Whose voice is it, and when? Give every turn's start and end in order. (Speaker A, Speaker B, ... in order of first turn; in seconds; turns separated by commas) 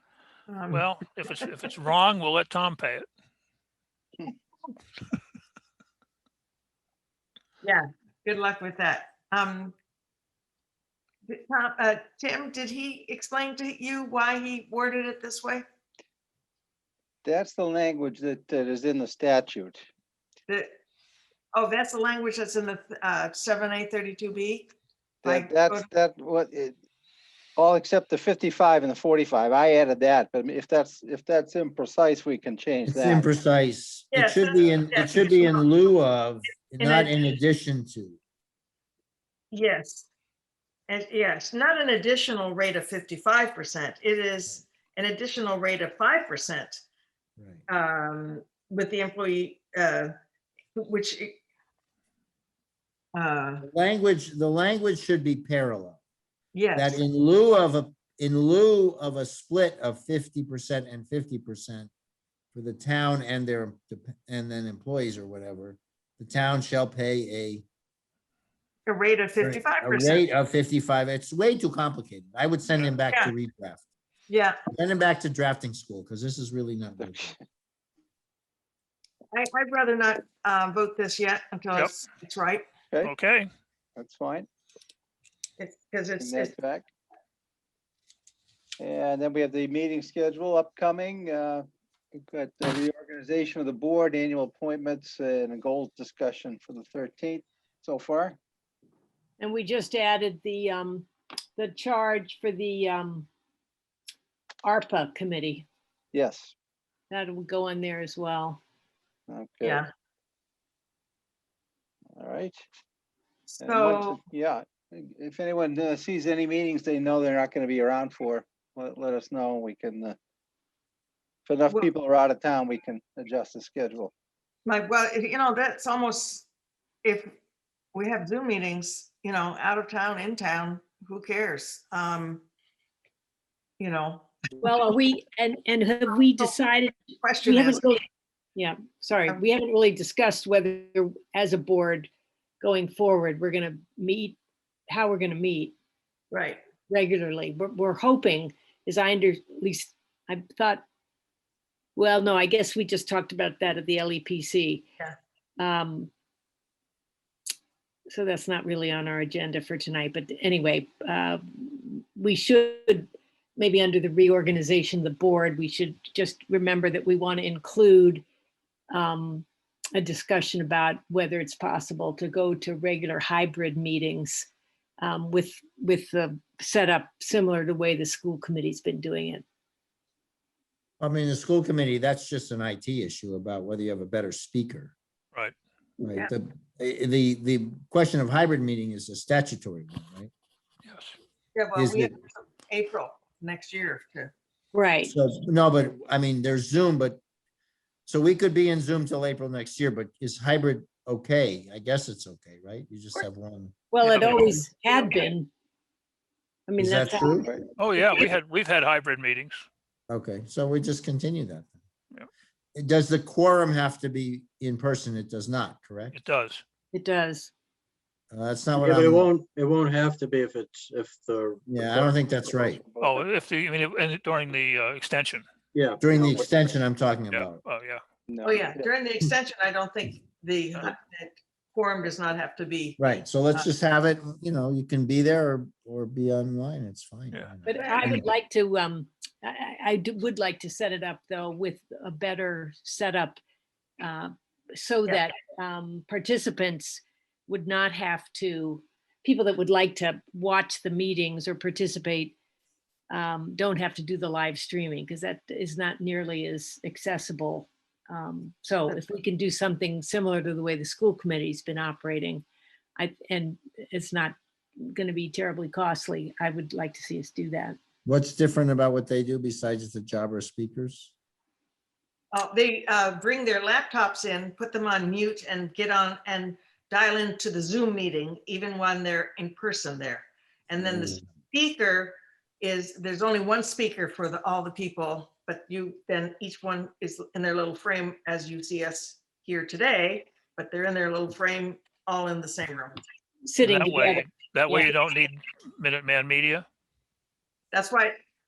Speaker A: 0.5-1.4, Speaker B: 0.7-3.1, Speaker A: 7.6-9.8, Speaker A: 11.3-15.7, Speaker C: 17.2-19.9, Speaker A: 20.5-20.7, Speaker A: 21.5-24.7, Speaker C: 25.2-26.7, Speaker A: 25.2-25.9, Speaker C: 27.6-33.3, Speaker D: 32.9-38.2, Speaker A: 34.1-35.7, Speaker A: 36.8-37.1, Speaker A: 39.5-40.1, Speaker A: 40.9-46.8, Speaker D: 47.4-47.6, Speaker A: 47.7-50.1, Speaker A: 50.8-51.4, Speaker A: 53.1-53.6, Speaker D: 53.6-56.0, Speaker A: 56.5-57.0, Speaker D: 56.8-61.9, Speaker D: 62.5-67.6, Speaker A: 68.9-70.3, Speaker D: 69.4-73.8, Speaker A: 74.3-74.6, Speaker D: 74.7-77.3, Speaker C: 77.0-77.3, Speaker A: 79.3-82.7, Speaker B: 83.0-83.5, Speaker C: 84.0-84.5, Speaker A: 85.6-86.5, Speaker C: 86.2-86.9, Speaker C: 88.8-98.4, Speaker E: 99.4-103.3, Speaker E: 104.6-105.7, Speaker C: 106.1-106.5, Speaker E: 107.1-108.6, Speaker C: 109.3-109.8, Speaker A: 109.6-109.9, Speaker C: 112.1-112.6, Speaker A: 113.5-114.2, Speaker C: 113.6-120.2, Speaker C: 121.5-124.1, Speaker A: 124.7-126.5, Speaker A: 127.0-127.3, Speaker A: 127.9-132.4, Speaker A: 133.8-134.3, Speaker E: 134.6-138.0, Speaker A: 137.2-137.8, Speaker E: 138.6-142.1, Speaker E: 142.6-145.8, Speaker A: 146.3-146.6, Speaker E: 146.9-150.8, Speaker E: 152.0-154.8, Speaker E: 155.6-156.1, Speaker E: 158.1-168.2, Speaker E: 168.9-174.5, Speaker E: 175.0-179.4, Speaker D: 181.0-184.9, Speaker D: 186.0-190.3, Speaker B: 190.8-191.2, Speaker A: 191.5-194.3, Speaker D: 191.8-192.1, Speaker E: 194.7-195.1, Speaker D: 195.1-197.2, Speaker D: 198.1-204.6, Speaker E: 203.9-205.5, Speaker B: 204.1-204.5, Speaker E: 206.7-207.4, Speaker D: 206.8-207.5, Speaker B: 207.8-209.6, Speaker D: 210.1-211.8, Speaker D: 212.8-216.2, Speaker B: 216.1-216.6, Speaker E: 216.9-217.5, Speaker D: 218.3-219.3, Speaker F: 218.8-222.8, Speaker D: 221.7-222.8, Speaker C: 222.9-223.2, Speaker B: 223.0-225.4, Speaker F: 225.7-226.5, Speaker D: 226.0-227.6, Speaker B: 227.3-228.0, Speaker C: 228.3-228.8, Speaker A: 228.4-233.7, Speaker D: 233.0-238.3, Speaker E: 237.7-243.4, Speaker A: 237.7-238.1, Speaker E: 244.0-252.3, Speaker E: 253.1-262.4, Speaker E: 263.0-267.8, Speaker D: 268.1-271.1, Speaker A: 272.3-293.0, Speaker D: 280.8-281.2, Speaker E: 293.4-294.9, Speaker B: 293.6-296.7, Speaker A: 297.7-298.1